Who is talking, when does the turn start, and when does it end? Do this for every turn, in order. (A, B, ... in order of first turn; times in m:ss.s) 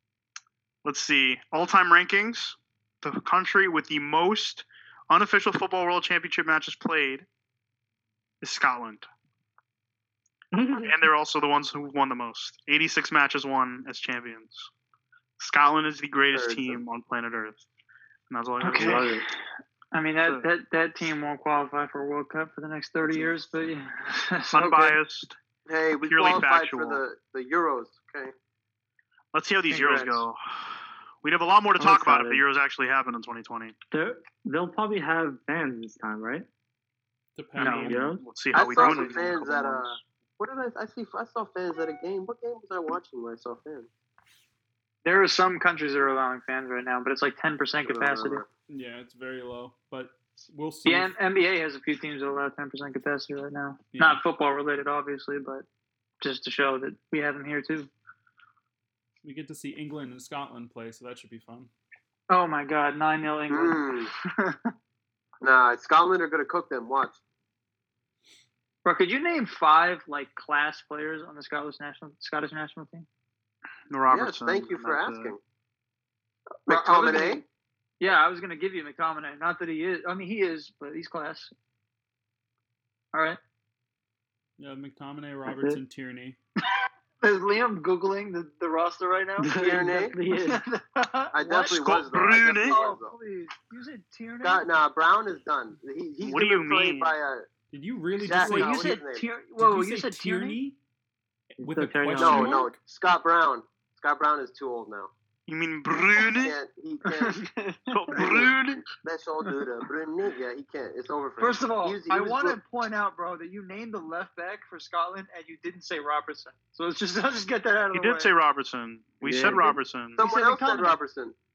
0:00.8-0:07.3 A
0:08.4-0:09.1 A
0:10.5-0:11.1 B
0:10.8-0:14.7 A
0:15.4-0:17.6 A
0:16.3-0:16.8 C
0:18.3-0:19.0 A
0:18.6-0:19.2 D
0:18.8-0:19.3 B
0:19.9-0:25.0 D
0:23.1-0:23.3 C
0:24.5-0:25.4 A
0:25.7-0:28.3 C
0:26.0-0:27.0 A
0:29.3-0:33.8 A
0:29.7-0:30.3 D
0:31.8-0:32.4 B
0:33.9-0:36.5 B
0:37.4-0:39.8 E
0:37.6-0:38.0 D
0:37.6-0:38.2 B
0:37.6-0:39.5 A
0:38.5-0:43.9 C
0:45.0-0:48.4 D
0:47.8-0:48.5 C
0:48.7-0:51.1 E
0:50.9-0:55.6 D
0:53.9-0:54.2 E
0:56.2-0:57.9 D
0:59.2-1:01.7 E
1:02.3-1:04.7 D
1:03.5-1:04.1 C
1:05.4-1:07.2 C
1:08.8-1:13.0 D
1:13.9-1:15.4 A
1:14.1-1:15.4 C
1:16.7-1:17.4 C
1:16.7-1:17.4 D
1:18.0-1:21.5 D
1:23.1-1:23.4 D
1:24.6-1:26.4 E
1:25.4-1:25.8 B
1:27.2-1:29.5 D
1:29.4-1:30.6 B
1:29.5-1:30.2 C
1:30.3-1:31.9 D
1:31.3-1:33.2 C
1:31.7-1:32.8 A
1:32.6-1:34.8 D
1:34.4-1:37.5 C
1:36.2-1:37.1 A
1:37.7-1:39.0 E
1:38.2-1:40.6 D
1:38.3-1:39.3 C
1:39.6-1:40.8 E
1:41.6-1:42.8 E
1:41.6-1:42.6 B
1:42.2-1:45.1 C
1:45.5-1:46.5 A
1:46.4-1:47.4 C
1:47.0-1:48.5 D
1:47.9-1:48.9 A
1:48.2-1:52.6 C
1:51.4-1:58.3 D
1:57.9-2:00.2 A
1:59.2-1:59.8 B
2:00.2-2:01.4 C
2:00.2-2:01.0 D